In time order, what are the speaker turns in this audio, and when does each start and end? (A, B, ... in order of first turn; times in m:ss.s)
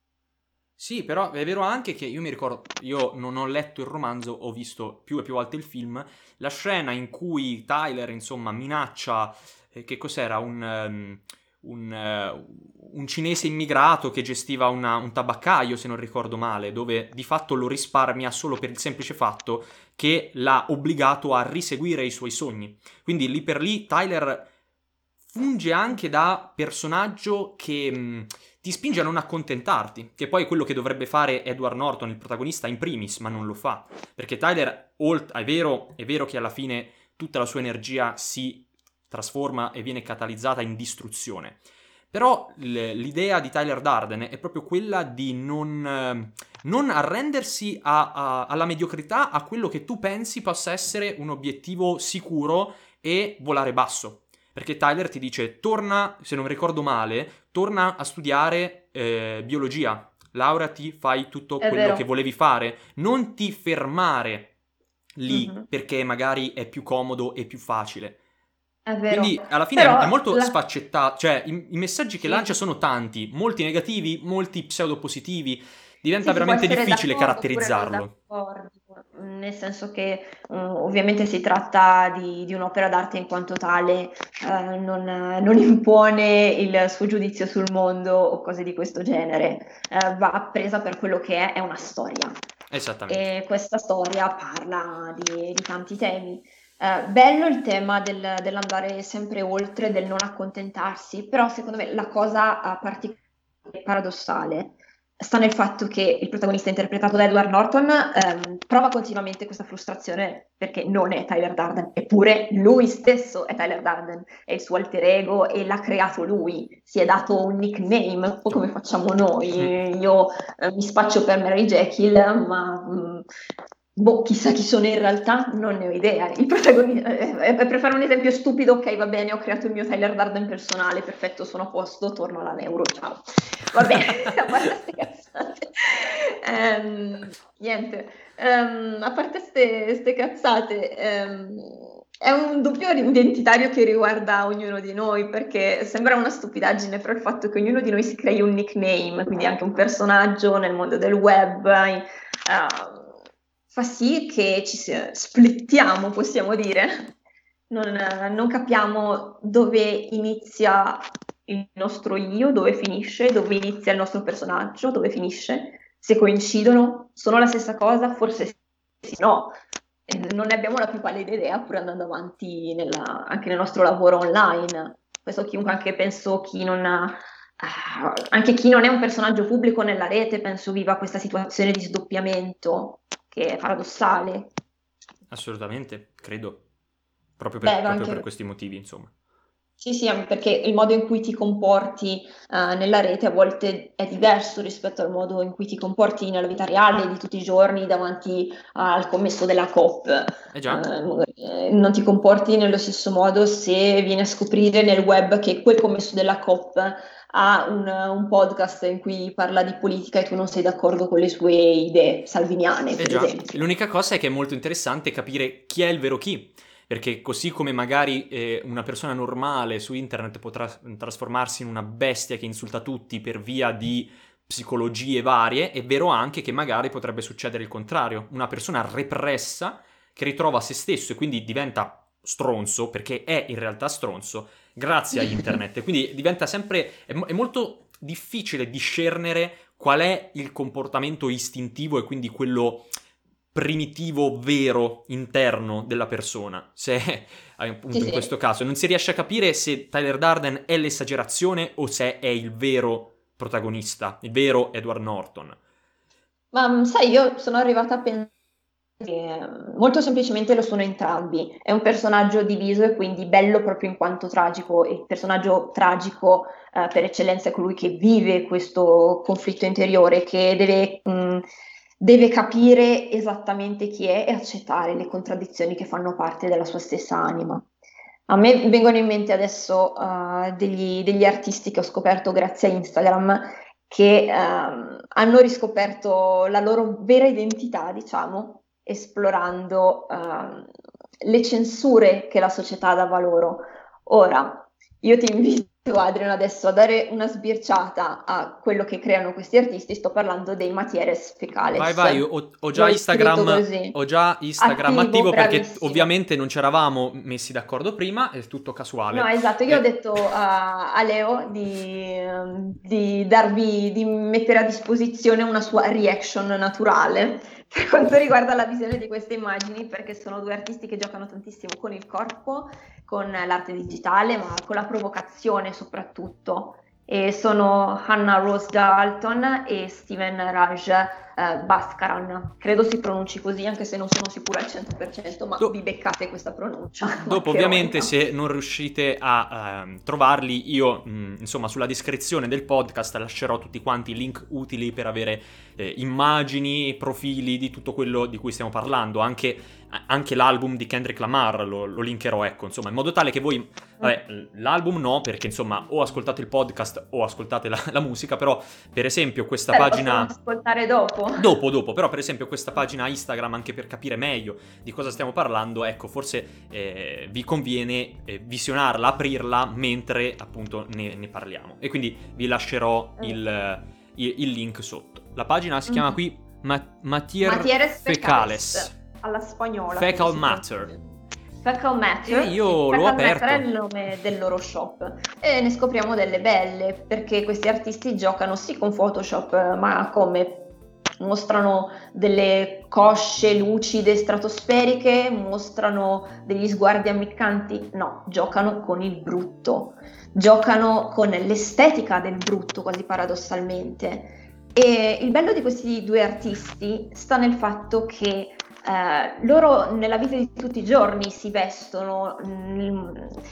0:00.8-0:24.5 A
0:25.3-0:41.6 A
0:42.1-1:04.5 A
1:01.6-1:02.1 B
1:05.2-1:08.2 A
1:05.3-1:05.7 B
1:08.9-1:10.6 B
1:09.1-1:18.1 A
1:12.2-1:12.6 B
1:16.2-1:32.4 B
1:32.7-1:33.2 A
1:33.1-1:43.2 B
1:43.7-2:03.2 B
2:04.0-2:33.1 B
2:33.7-2:37.1 B
2:37.7-2:49.5 B
2:50.1-3:04.5 B
3:05.3-3:06.6 A
3:07.4-3:09.1 A
3:07.6-3:08.3 B
3:09.8-3:33.6 B
3:20.5-3:20.8 A
3:33.0-4:02.9 A
4:03.5-4:15.6 A
4:07.9-4:08.3 B
4:16.5-4:18.3 B
4:19.0-4:31.4 B
4:32.0-4:37.7 B
4:38.3-4:50.7 B
4:51.2-5:04.0 B
5:01.8-5:09.8 A
5:04.6-5:06.1 B
5:09.1-5:38.2 B
5:37.3-6:00.3 A
5:59.7-6:01.6 B
6:01.4-6:18.9 A
6:15.9-6:16.2 B
6:17.4-6:21.0 B
6:19.9-6:20.9 A
6:21.6-6:30.7 B
6:22.3-6:23.7 A
6:31.2-6:53.4 B